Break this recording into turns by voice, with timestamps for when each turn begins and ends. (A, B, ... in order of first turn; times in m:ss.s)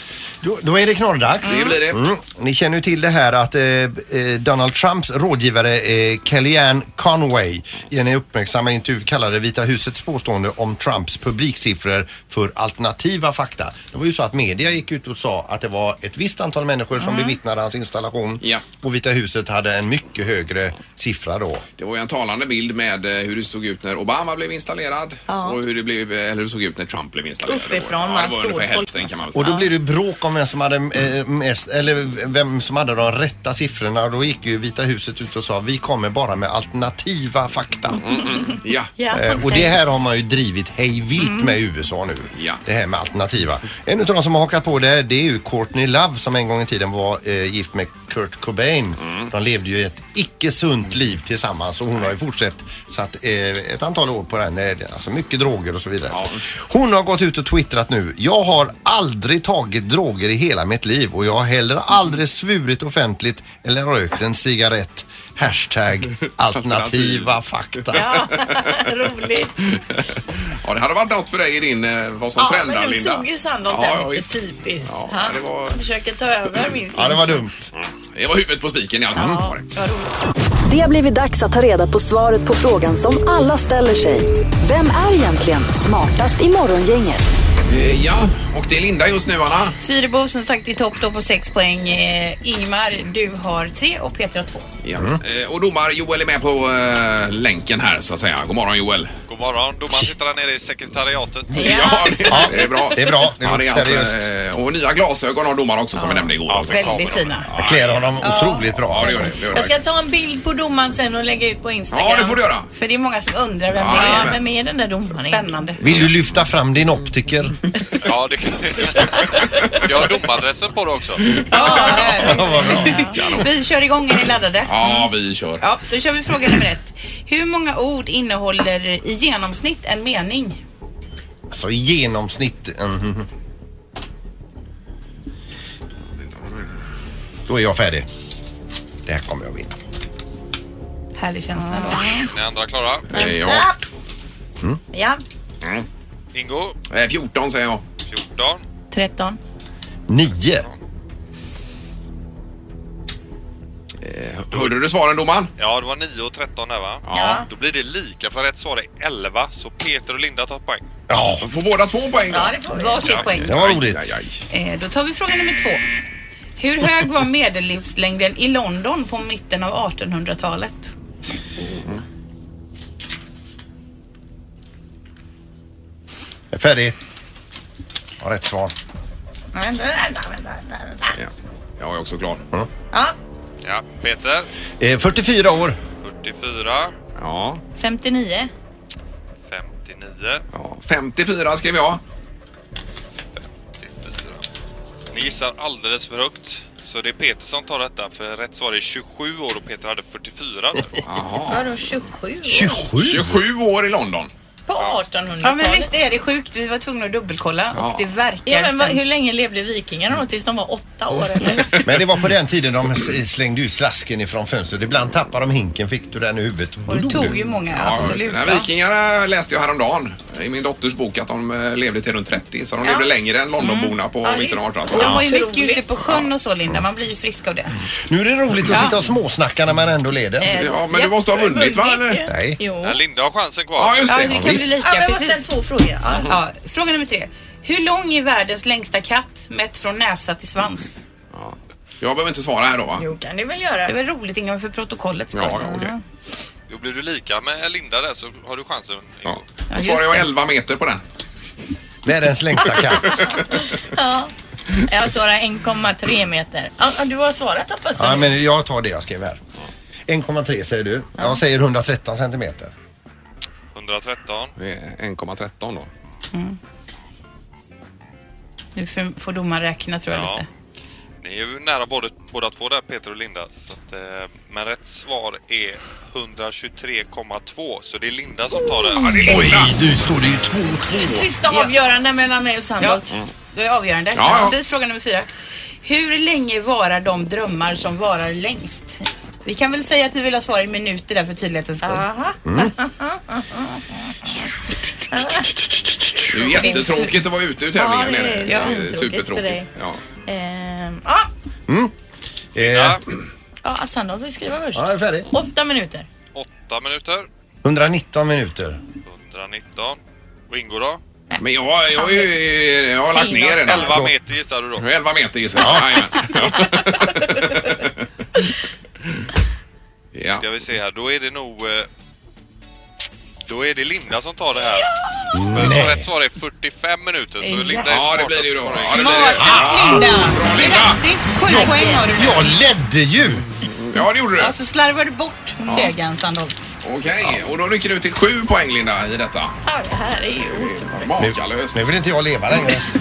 0:00.4-0:21.6 A
0:01.4-0:02.1 B
0:17.0-0:17.4 C
0:21.8-0:29.5 B
0:25.3-0:25.6 C
0:27.5-0:29.7 C
0:29.4-0:38.1 A
0:38.0-0:38.9 B
0:39.0-0:39.7 C
0:39.1-1:08.1 A
0:41.2-0:41.5 C
0:42.4-0:42.6 B
0:56.1-0:56.4 B
1:06.3-1:07.4 B
1:07.9-1:09.6 C
1:08.4-1:08.8 B
1:09.8-1:15.8 B
1:12.4-1:17.4 C
1:16.9-1:17.7 A
1:17.8-1:19.7 B
1:19.2-1:20.2 C
1:20.6-1:27.4 D
1:27.7-1:29.8 B
1:29.8-1:34.7 E
1:34.8-1:39.1 B
1:39.3-1:41.7 F
1:41.5-1:42.8 C
1:41.6-1:49.8 B
1:42.3-1:44.3 A
1:46.5-1:47.4 F
1:46.6-1:47.5 E
1:47.6-1:49.3 A
1:48.2-1:52.4 C
1:51.9-1:52.7 B
1:52.7-1:54.4 E
1:53.8-1:54.4 B
1:53.9-1:55.6 C
1:55.2-1:55.8 E
1:55.8-1:57.6 A
1:58.0-2:01.3 F
2:01.3-2:03.6 B
2:01.5-2:05.1 E
2:01.5-2:03.1 C
2:02.2-2:03.0 A
2:04.6-2:05.6 B
2:05.6-2:10.6 E
2:11.5-2:13.3 A
2:17.5-2:18.1 A
2:19.0-2:19.8 A
2:21.2-2:22.3 E
2:21.6-2:22.3 C
2:22.3-2:23.1 F
2:23.1-2:23.8 B
2:23.1-2:23.8 C
2:24.9-2:25.2 C
2:26.3-2:26.8 F
2:26.9-2:27.8 B
2:28.1-2:28.6 F
2:28.9-2:29.4 C
2:30.1-2:30.7 A
2:34.0-2:35.5 B
2:35.6-2:40.9 F
2:37.1-2:37.4 B
2:37.1-2:37.5 C
2:41.1-2:41.5 A
2:41.2-2:44.4 B
2:42.3-2:43.0 C
2:42.7-2:43.5 E
2:43.4-2:44.1 A
2:44.5-2:45.8 E
2:46.6-2:50.9 E
2:56.5-2:57.0 A
2:58.2-2:58.7 A
2:59.5-3:01.2 C
3:01.2-3:02.4 B
3:03.6-3:04.5 F
3:04.8-3:05.8 A
3:06.0-3:07.0 F
3:07.2-3:07.6 B
3:07.8-3:08.5 C
3:09.5-3:10.4 F
3:10.5-3:12.0 B
3:13.4-3:14.4 F
3:15.1-3:21.0 F
3:21.1-3:21.7 B
3:21.5-3:22.8 C
3:22.5-3:23.4 A
3:23.0-3:24.3 B
3:24.7-3:25.9 C
3:25.4-3:29.0 E
3:27.7-3:28.1 B
3:28.5-3:31.8 C
3:31.8-3:37.4 A
3:36.9-3:38.7 E
3:37.7-3:45.2 B
3:42.8-3:43.1 C
3:43.6-3:43.9 E
3:44.2-3:45.9 C
3:44.9-3:47.7 E
3:48.1-3:50.5 A
3:48.7-3:49.0 E
3:50.4-3:51.8 E
3:50.6-3:52.2 B
3:50.9-3:53.0 C
3:52.3-3:52.6 A
3:52.8-3:54.1 F
3:53.8-3:54.7 B
3:54.1-3:55.5 E
3:54.4-3:56.3 C
3:56.2-4:01.0 E
4:01.3-4:03.0 B
4:03.0-4:04.0 C
4:03.9-4:06.0 E
4:05.3-4:06.0 B
4:06.7-4:09.4 F
4:09.3-4:11.0 B
4:09.7-4:10.3 E
4:12.0-4:13.2 A
4:13.8-4:14.3 C
4:14.8-4:18.3 C
4:18.0-4:19.4 A
4:20.1-4:22.7 A
4:23.7-4:24.5 F
4:24.6-4:25.9 B
4:28.8-4:30.5 E
4:30.1-4:30.4 F
4:31.2-4:39.4 F
4:39.1-4:39.7 B
4:39.2-4:41.2 A
4:40.9-4:41.8 E
4:41.0-4:43.2 C
4:42.8-4:45.3 E
4:44.1-4:44.6 B
4:45.8-4:52.1 E
4:51.8-4:53.6 C
4:52.4-4:52.7 A
4:55.1-4:55.5 C
4:55.7-4:56.4 A
4:56.3-5:00.0 B
4:56.6-4:57.1 C
4:57.8-4:59.7 C
5:00.3-5:01.3 C
5:01.7-5:01.9 A
5:02.6-5:03.0 A
5:02.6-5:03.0 F
5:03.6-5:06.1 C
5:04.8-5:05.3 A
5:06.4-5:07.3 F
5:07.6-5:08.8 A
5:09.1-5:10.0 F
5:10.5-5:11.0 F
5:11.4-5:14.1 B
5:12.0-5:12.3 C
5:13.1-5:13.7 C
5:13.5-5:14.9 F
5:13.8-5:14.1 A
5:14.8-5:17.9 B
5:15.6-5:16.0 A
5:20.2-5:20.4 B
5:20.3-5:21.9 F
5:23.5-5:24.9 F
5:25.3-5:26.1 A
5:25.5-5:29.4 F
5:27.4-5:27.9 E
5:27.9-5:31.0 B
5:28.9-5:32.5 E
5:29.4-5:30.1 A
5:31.5-5:33.5 A
5:31.6-5:32.0 C
5:33.8-5:34.6 B
5:34.4-5:36.6 E
5:35.6-5:35.9 B
5:36.8-5:39.6 B
5:39.6-5:41.1 C
5:40.5-5:41.9 B
5:41.2-5:42.9 A